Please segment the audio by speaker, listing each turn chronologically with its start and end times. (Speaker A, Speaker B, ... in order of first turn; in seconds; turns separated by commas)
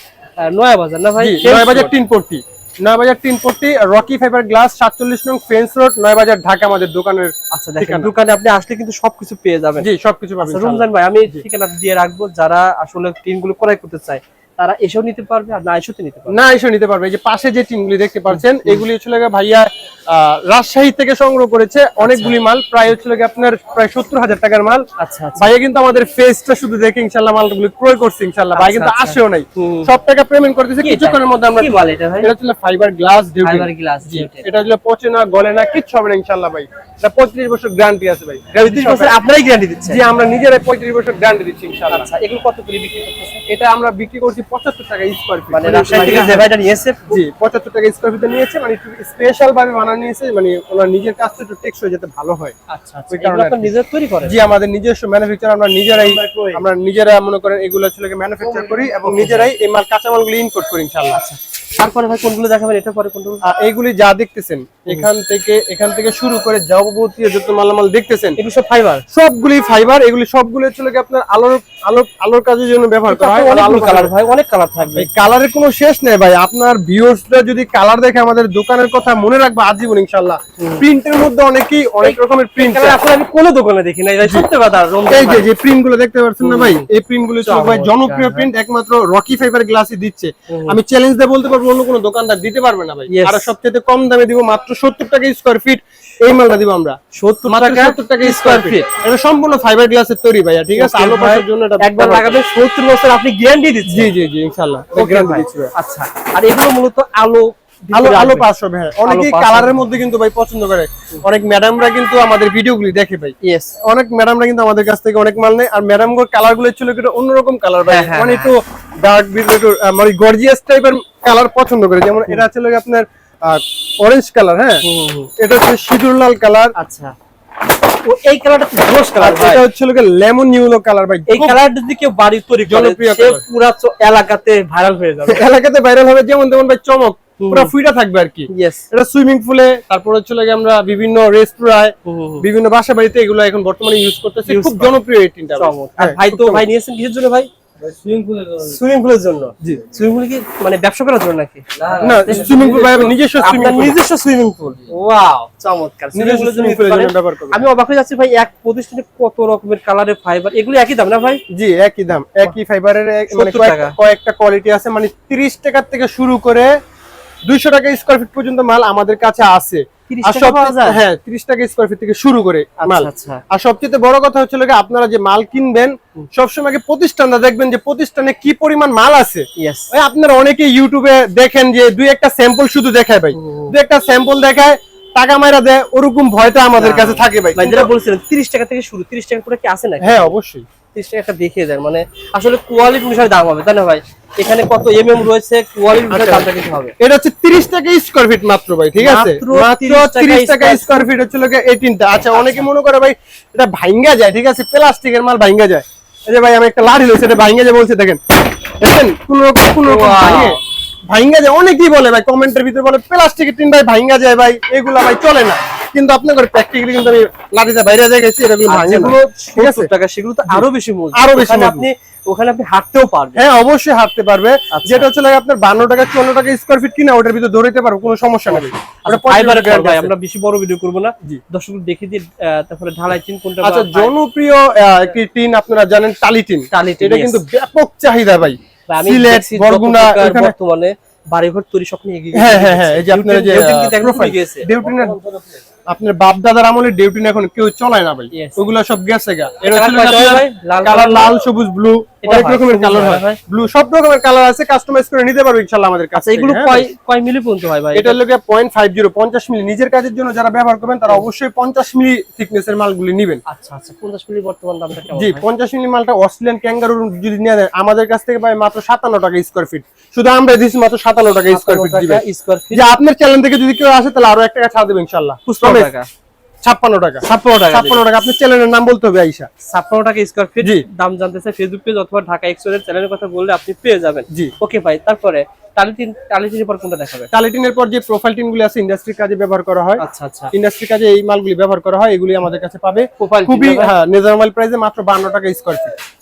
Speaker A: 0.4-1.9, Speaker B: 1.2-8.1, Speaker A: 7.5-9.9, Speaker B: 9.8-11.4, Speaker A: 10.4-16.4, Speaker B: 16.3-24.9, Speaker A: 18.3-18.8, Speaker A: 22.0-22.4, Speaker A: 25.0-25.5, Speaker B: 25.4-39.1, Speaker A: 28.5-29.9, Speaker A: 30.8-32.3, Speaker A: 33.4-34.5, Speaker A: 38.6-40.0, Speaker B: 39.9-42.1, Speaker A: 41.9-43.4, Speaker B: 43.5-46.5, Speaker A: 45.5-47.0, Speaker B: 47.1-52.5, Speaker A: 52.7-54.3, Speaker B: 53.1-61.2, Speaker A: 55.9-56.6, Speaker A: 58.4-59.5, Speaker A: 61.1-63.4, Speaker B: 63.4-68.4, Speaker A: 68.4-69.0, Speaker B: 69.1-74.1, Speaker A: 73.1-75.1, Speaker B: 74.9-83.0, Speaker A: 80.6-80.8, Speaker A: 82.0-85.5, Speaker B: 85.1-102.4, Speaker A: 86.4-86.9, Speaker A: 87.4-88.5, Speaker A: 90.5-90.8, Speaker A: 93.1-93.5, Speaker A: 97.1-98.9, Speaker A: 100.8-104.1, Speaker B: 103.9-105.7, Speaker A: 105.0-108.5, Speaker B: 107.9-124.8, Speaker A: 109.0-109.9, Speaker A: 113.4-113.8, Speaker A: 117.9-118.6, Speaker A: 124.8-125.3, Speaker B: 125.4-126.7, Speaker A: 126.8-127.2, Speaker A: 128.1-129.6, Speaker B: 129.2-131.6, Speaker A: 131.3-135.4, Speaker B: 132.7-133.4, Speaker B: 135.3-146.7, Speaker A: 137.4-137.7, Speaker A: 138.5-138.8, Speaker A: 142.1-142.5, Speaker A: 144.5-145.0, Speaker A: 145.6-147.5, Speaker C: 147.8-148.8, Speaker A: 148.7-161.4, Speaker C: 151.8-153.6, Speaker B: 152.0-154.0, Speaker B: 156.1-157.7, Speaker B: 161.5-166.7, Speaker A: 163.3-163.9, Speaker B: 167.5-187.9, Speaker A: 170.1-171.0, Speaker A: 172.8-173.4, Speaker A: 179.6-179.9, Speaker A: 183.3-183.7, Speaker A: 186.8-190.3, Speaker B: 190.0-190.7, Speaker A: 190.9-196.9, Speaker B: 196.1-196.5, Speaker B: 197.0-208.2, Speaker A: 199.0-201.1, Speaker A: 202.3-202.7, Speaker B: 208.8-219.9, Speaker A: 209.8-210.6, Speaker A: 218.7-223.4, Speaker B: 220.5-221.9, Speaker B: 223.4-230.1, Speaker A: 224.7-225.1, Speaker A: 228.5-234.1, Speaker B: 233.6-240.5, Speaker A: 236.7-237.4, Speaker A: 238.9-244.7, Speaker B: 242.3-256.9, Speaker A: 248.3-248.6, Speaker A: 249.7-251.3, Speaker A: 252.2-253.4, Speaker A: 256.1-258.2, Speaker B: 257.9-263.4, Speaker A: 263.5-265.4, Speaker B: 265.1-275.9, Speaker A: 271.5-272.9, Speaker A: 275.5-276.1, Speaker B: 276.6-279.5, Speaker A: 277.2-278.1, Speaker A: 279.6-287.3, Speaker B: 287.3-295.9, Speaker A: 290.0-290.5, Speaker A: 293.2-293.9